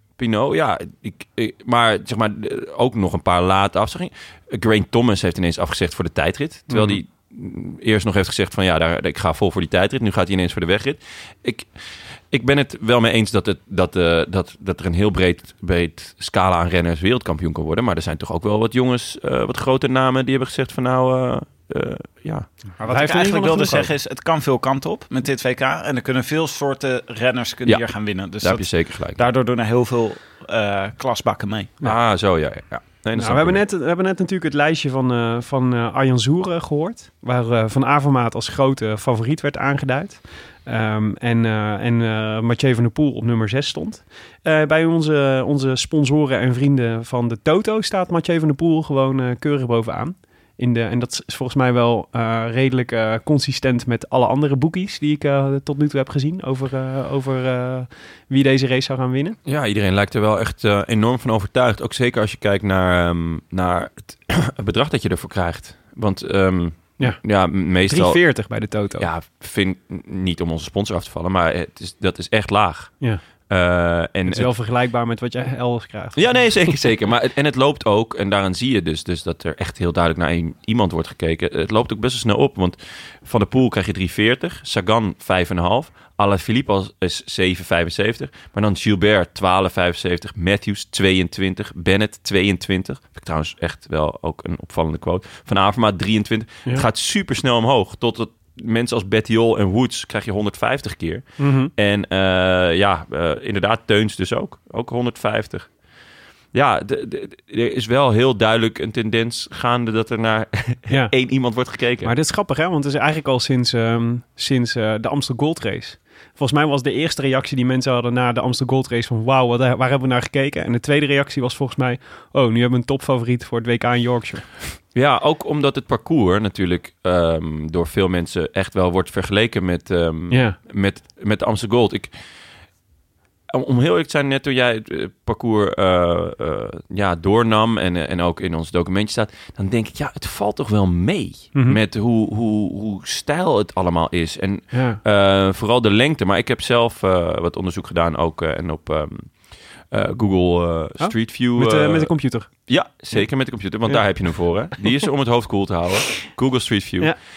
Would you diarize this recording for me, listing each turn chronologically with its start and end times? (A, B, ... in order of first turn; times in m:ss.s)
0:00.2-0:11.7 A
0:06.7-0:07.0 B
0:12.3-0:22.5 A
0:22.8-0:31.8 C
0:22.9-0:23.9 B
0:27.7-0:29.2 A
0:31.8-0:33.6 A
0:33.2-0:59.4 B
0:59.4-1:14.5 A
1:07.0-1:09.1 B
1:14.3-1:16.7 B
1:16.2-1:45.8 A
1:41.4-1:41.7 B
1:46.5-1:52.1 A
1:50.9-1:51.2 B
1:52.0-2:04.6 B
2:04.9-2:12.1 A
2:10.3-2:10.6 B
2:13.5-2:37.1 A
2:21.5-2:21.8 B
2:24.7-2:25.0 B
2:31.0-2:33.3 B
2:33.8-2:35.0 B